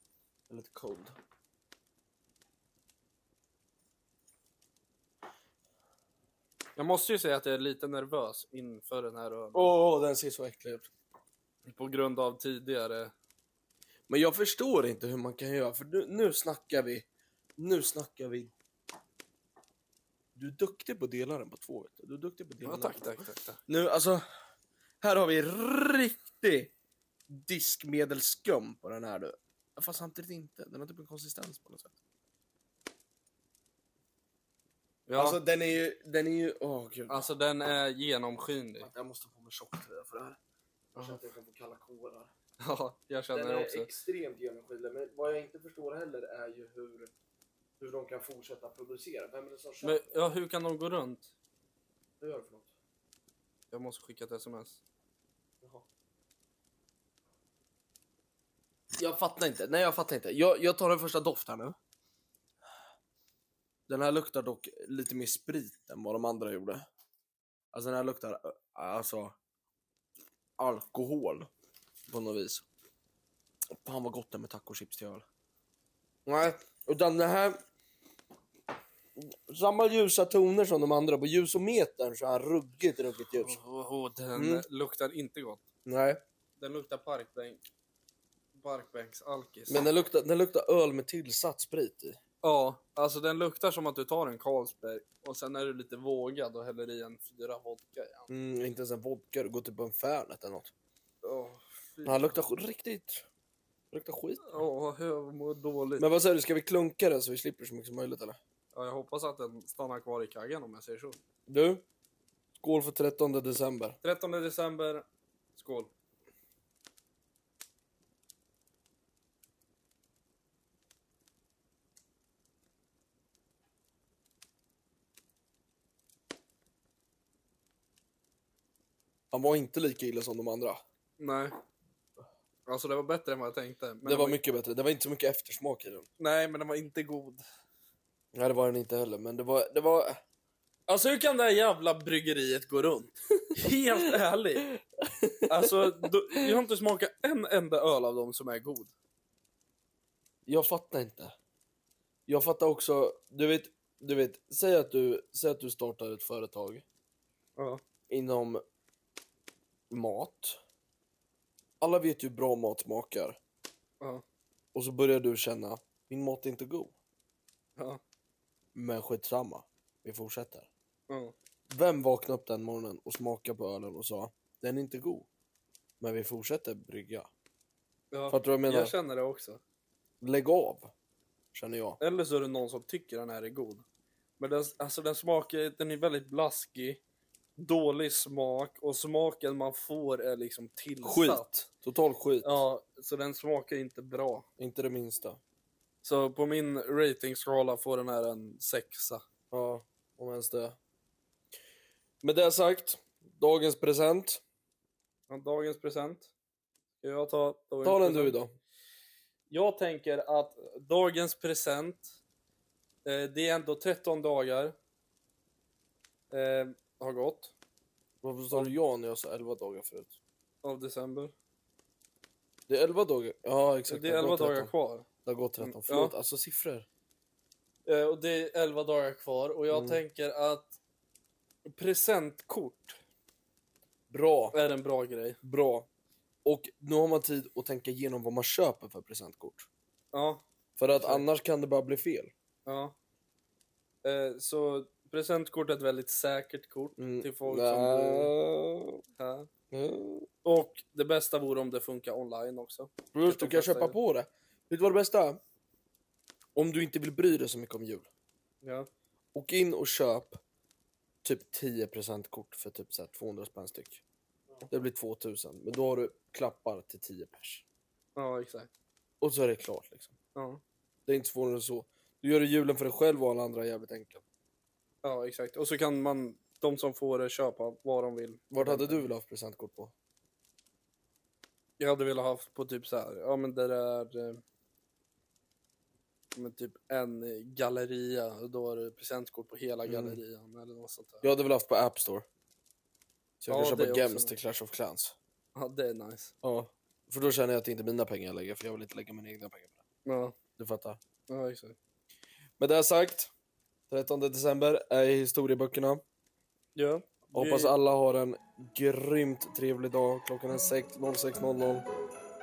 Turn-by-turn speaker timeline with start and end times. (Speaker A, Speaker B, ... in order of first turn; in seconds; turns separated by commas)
Speaker A: 0.5-1.2, Speaker B: 6.8-9.8, Speaker A: 9.5-10.9, Speaker B: 11.7-13.1, Speaker A: 14.1-18.5, Speaker A: 20.4-23.1, Speaker B: 22.6-23.6, Speaker A: 23.7-24.2, Speaker A: 25.0-26.7, Speaker A: 27.3-31.9, Speaker B: 35.1-35.4, Speaker A: 35.2-37.3, Speaker B: 37.1-38.9, Speaker A: 38.8-40.4, Speaker A: 40.9-42.3, Speaker B: 41.0-41.2, Speaker B: 42.6-43.9, Speaker A: 43.3-47.1, Speaker A: 47.8-50.2, Speaker B: 49.8-51.3, Speaker A: 52.2-52.7, Speaker B: 53.7-54.8, Speaker A: 59.0-61.8, Speaker A: 63.9-66.8, Speaker A: 67.7-69.4, Speaker A: 70.6-71.5, Speaker A: 72.1-72.7, Speaker A: 73.8-75.2, Speaker A: 76.2-77.6, Speaker A: 79.2-83.6, Speaker B: 83.3-85.6, Speaker A: 84.3-84.6, Speaker A: 85.9-86.2, Speaker B: 86.6-87.6, Speaker B: 88.5-89.8, Speaker A: 89.7-92.2, Speaker B: 92.4-98.3, Speaker A: 98.3-100.7, Speaker B: 101.2-102.4, Speaker A: 102.0-103.2, Speaker A: 103.9-104.6, Speaker B: 104.4-106.1, Speaker A: 106.0-108.4, Speaker B: 108.7-111.2, Speaker A: 111.5-111.8, Speaker A: 112.6-114.0, Speaker B: 114.0-115.0, Speaker B: 115.6-115.9, Speaker A: 129.3-130.8, Speaker B: 131.2-131.5, Speaker B: 132.7-134.4, Speaker A: 134.1-136.1, Speaker B: 136.2-137.4, Speaker A: 138.3-140.2, Speaker B: 140.9-144.7, Speaker A: 145.1-146.1, Speaker B: 145.5-148.9, Speaker A: 150.4-151.3, Speaker A: 152.3-156.8, Speaker B: 157.6-157.8, Speaker A: 158.1-158.6, Speaker A: 159.9-160.6, Speaker A: 161.8-163.4, Speaker A: 164.7-166.9, Speaker A: 168.8-170.7, Speaker B: 171.1-171.3, Speaker A: 171.7-175.3, Speaker A: 176.0-177.3, Speaker B: 178.1-179.6, Speaker A: 178.3-178.9, Speaker A: 180.2-180.9, Speaker A: 181.5-182.0, Speaker B: 182.0-183.8, Speaker B: 184.4-187.0, Speaker B: 187.6-191.7, Speaker A: 191.0-192.6, Speaker B: 192.4-194.4, Speaker A: 194.6-195.4, Speaker B: 196.0-199.2, Speaker A: 199.5-200.8, Speaker A: 202.2-204.4, Speaker B: 205.3-206.3, Speaker B: 207.0-208.4, Speaker A: 207.8-208.5, Speaker B: 209.5-212.2, Speaker B: 213.1-214.8, Speaker B: 216.3-217.5, Speaker A: 218.2-220.2, Speaker B: 220.6-221.3, Speaker A: 222.7-224.7, Speaker B: 223.9-225.1, Speaker A: 225.2-226.9, Speaker B: 225.6-226.1, Speaker B: 227.9-230.8, Speaker A: 229.7-230.0, Speaker B: 231.7-233.0, Speaker A: 234.1-234.6, Speaker B: 234.5-235.4, Speaker A: 235.4-235.9, Speaker A: 236.4-239.7, Speaker B: 240.1-241.2, Speaker A: 240.8-242.3, Speaker B: 242.7-242.9, Speaker B: 244.0-248.3, Speaker A: 247.0-249.0, Speaker B: 249.2-249.5, Speaker A: 249.7-250.3, Speaker B: 250.4-254.0, Speaker A: 253.1-255.4, Speaker A: 256.6-258.1, Speaker B: 258.6-258.9, Speaker A: 259.3-260.4, Speaker A: 261.2-264.0, Speaker A: 264.7-267.6, Speaker B: 268.1-268.7, Speaker A: 269.2-270.1, Speaker B: 270.4-270.6, Speaker A: 271.1-274.2, Speaker B: 275.0-279.1, Speaker A: 278.5-279.9, Speaker B: 281.8-284.4, Speaker B: 286.4-291.3, Speaker A: 289.9-290.2, Speaker A: 291.2-292.3, Speaker A: 293.4-295.2, Speaker B: 293.5-294.4, Speaker B: 295.6-296.3, Speaker A: 296.4-299.8, Speaker B: 300.1-300.3, Speaker A: 300.6-301.0, Speaker B: 301.3-301.8, Speaker A: 302.6-303.3, Speaker A: 303.9-306.0, Speaker B: 306.8-307.7, Speaker A: 307.3-311.9